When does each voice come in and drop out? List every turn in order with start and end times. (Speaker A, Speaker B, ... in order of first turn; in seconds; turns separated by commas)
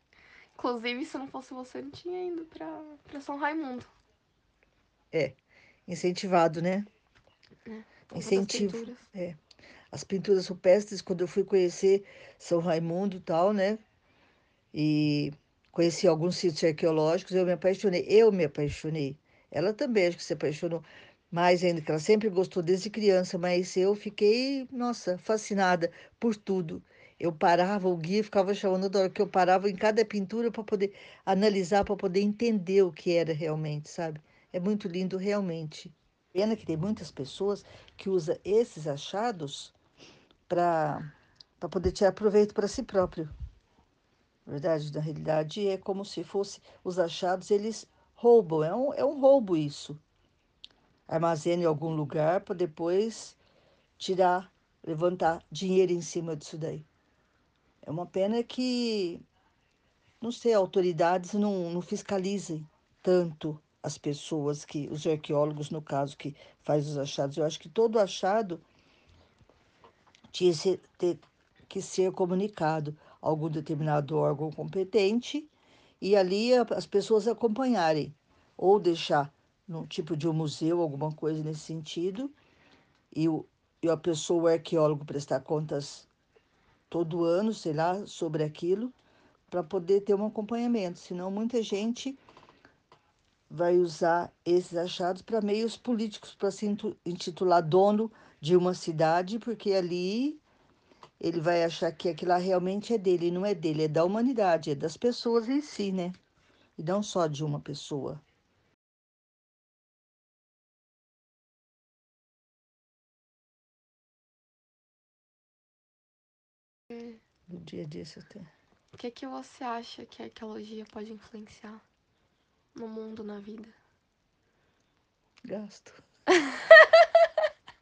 Speaker A: 0.5-3.9, Speaker B: 5.1-6.9, Speaker A: 7.7-9.0, Speaker B: 8.1-9.4, Speaker B: 9.9-13.8, Speaker B: 14.7-39.7, Speaker B: 40.5-43.3, Speaker B: 44.5-50.0, Speaker B: 51.1-53.4, Speaker B: 54.0-56.9, Speaker B: 57.8-59.2, Speaker B: 60.2-68.6, Speaker B: 70.3-82.3, Speaker B: 83.1-86.1, Speaker B: 86.9-89.0, Speaker B: 89.5-92.2, Speaker B: 93.5-100.4, Speaker B: 101.2-106.2, Speaker B: 106.8-108.2, Speaker B: 117.5-118.5, Speaker A: 118.9-121.8, Speaker A: 122.7-123.7, Speaker B: 125.5-126.0